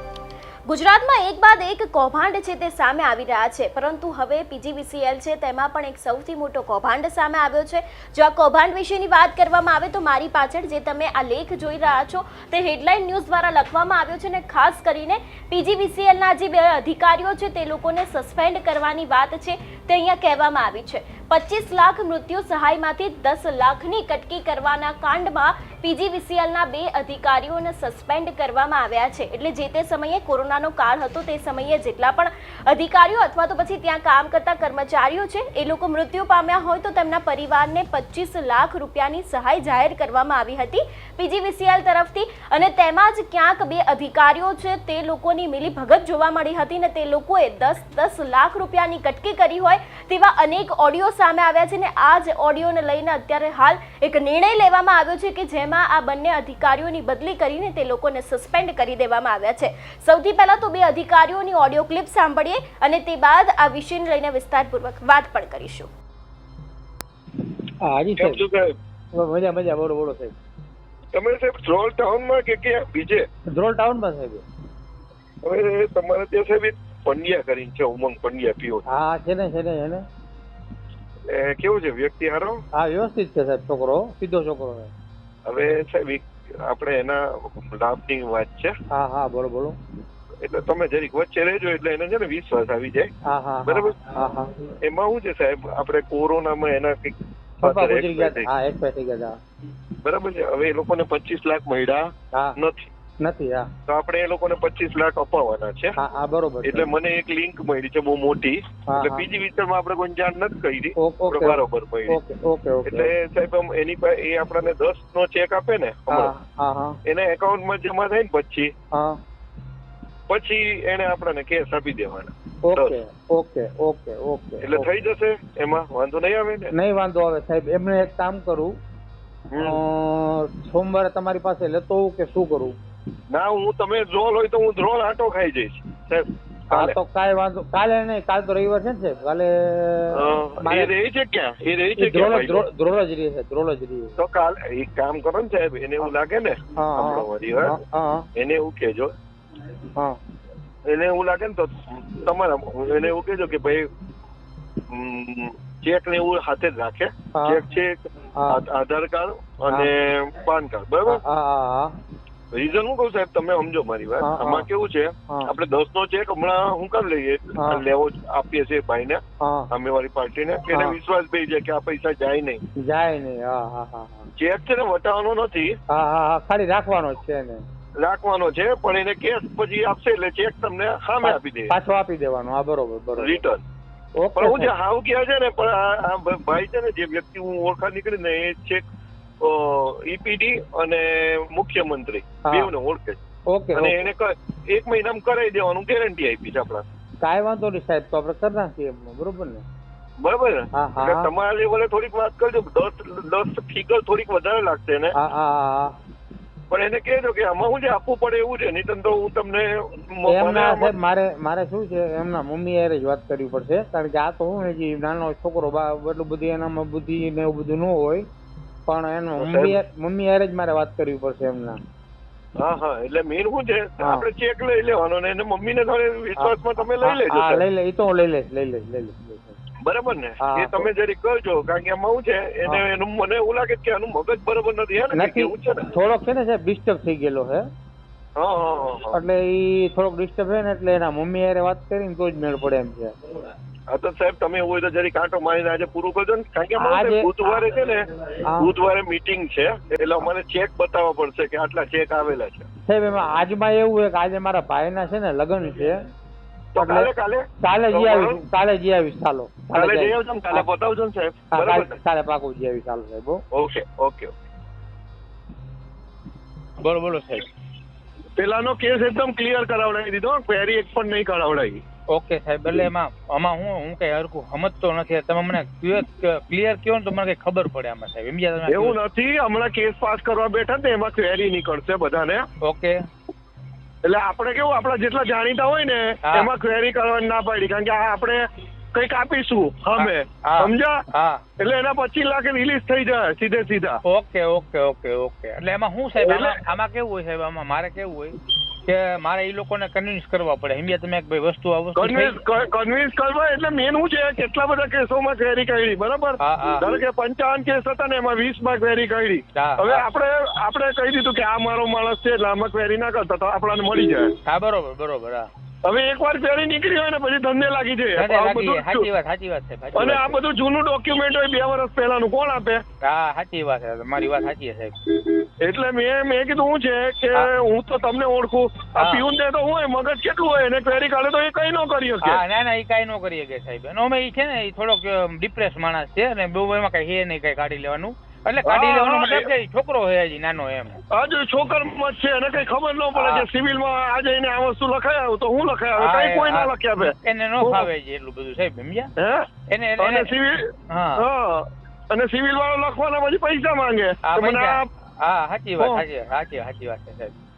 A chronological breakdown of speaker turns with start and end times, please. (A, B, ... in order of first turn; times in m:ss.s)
0:00.7-1:05.9 A
1:07.8-1:08.4 B
1:08.2-1:08.7 C
1:09.1-1:10.3 B
1:11.1-1:13.2 C
1:13.5-1:14.4 B
1:15.4-1:18.8 C
1:18.9-1:20.0 B
1:21.3-1:22.6 C
1:22.8-1:24.9 B
1:25.4-1:28.7 C
1:28.9-1:29.8 B
1:30.4-1:33.1 C
1:33.3-1:34.5 B
1:33.7-1:33.9 C
1:34.8-1:38.5 C
1:37.6-1:39.3 B
1:40.0-1:42.9 C
1:43.2-1:43.7 B
1:43.9-1:46.0 C
1:46.0-1:46.9 B
1:46.6-1:52.2 C
1:48.9-1:49.2 B
1:51.0-1:53.1 B
1:52.9-1:56.3 C
1:56.1-1:57.0 B
1:57.1-1:58.7 C
2:00.3-2:02.9 C
2:02.6-2:04.9 B
2:04.6-2:06.7 C
2:06.7-2:08.7 B
2:09.5-2:09.8 C
2:09.6-2:12.7 B
2:13.3-2:17.0 C
2:16.7-2:20.9 B
2:20.2-2:22.7 C
2:22.0-2:24.2 B
2:24.2-2:27.8 C
2:26.8-2:28.3 B
2:28.4-2:29.1 C
2:30.9-2:33.9 C
2:34.9-2:41.2 C
2:37.3-2:37.6 B
2:38.4-2:38.6 B
2:41.1-2:42.0 B
2:42.5-2:52.6 C
2:44.2-2:44.7 B
2:49.4-2:49.7 B
2:52.8-2:54.3 B
2:54.4-2:55.8 C
2:55.9-2:57.6 B
2:58.0-3:01.7 C
3:01.2-3:03.4 B
3:03.2-3:03.6 C
3:04.2-3:04.7 B
3:04.4-3:08.9 C
3:09.4-3:13.2 C
3:12.4-3:12.7 B
3:13.5-3:14.1 B
3:13.8-3:16.8 C
3:17.2-3:19.6 B
3:20.2-3:25.1 C
3:20.8-3:21.3 B
3:25.2-3:25.9 B
3:26.7-3:30.9 C
3:30.3-3:38.2 B
3:38.9-3:41.8 B
3:39.4-3:39.8 C
3:42.6-3:47.6 C
3:46.4-3:49.6 B
3:49.8-3:55.9 C
3:50.4-3:50.9 B
3:55.1-3:57.6 B
3:58.4-3:59.2 C
3:59.1-4:03.2 B
4:03.9-4:12.7 C
4:06.8-4:07.4 B
4:08.5-4:08.7 B
4:12.9-4:16.0 B
4:16.8-4:17.1 B
4:16.8-4:18.4 C
4:17.6-4:20.6 B
4:19.7-4:21.9 C
4:21.5-4:23.4 B
4:23.5-4:24.3 C
4:26.8-4:27.5 D
4:28.4-4:31.8 C
4:32.1-4:39.0 D
4:38.7-4:42.5 C
4:42.6-4:43.0 D
4:44.0-4:51.0 C
4:50.0-4:51.4 D
4:51.6-4:54.0 C
4:54.0-5:02.4 D
4:56.2-4:56.6 C
5:02.0-5:14.3 C
5:06.4-5:06.9 D
5:09.5-5:10.0 D
5:14.4-5:15.5 D
5:15.8-5:19.1 C
5:18.2-5:20.4 D
5:20.0-5:22.8 C
5:23.0-5:25.0 D
5:25.6-5:32.4 C
5:29.0-5:29.2 D
5:32.2-5:41.0 D
5:38.6-5:39.5 C
5:41.1-5:47.9 C
5:43.1-5:43.5 D
5:46.0-5:49.1 D
5:49.2-5:49.5 C
5:49.7-5:50.4 D
5:50.0-5:54.8 C
5:50.9-5:51.2 D
5:54.2-5:57.3 D
5:55.8-5:56.0 C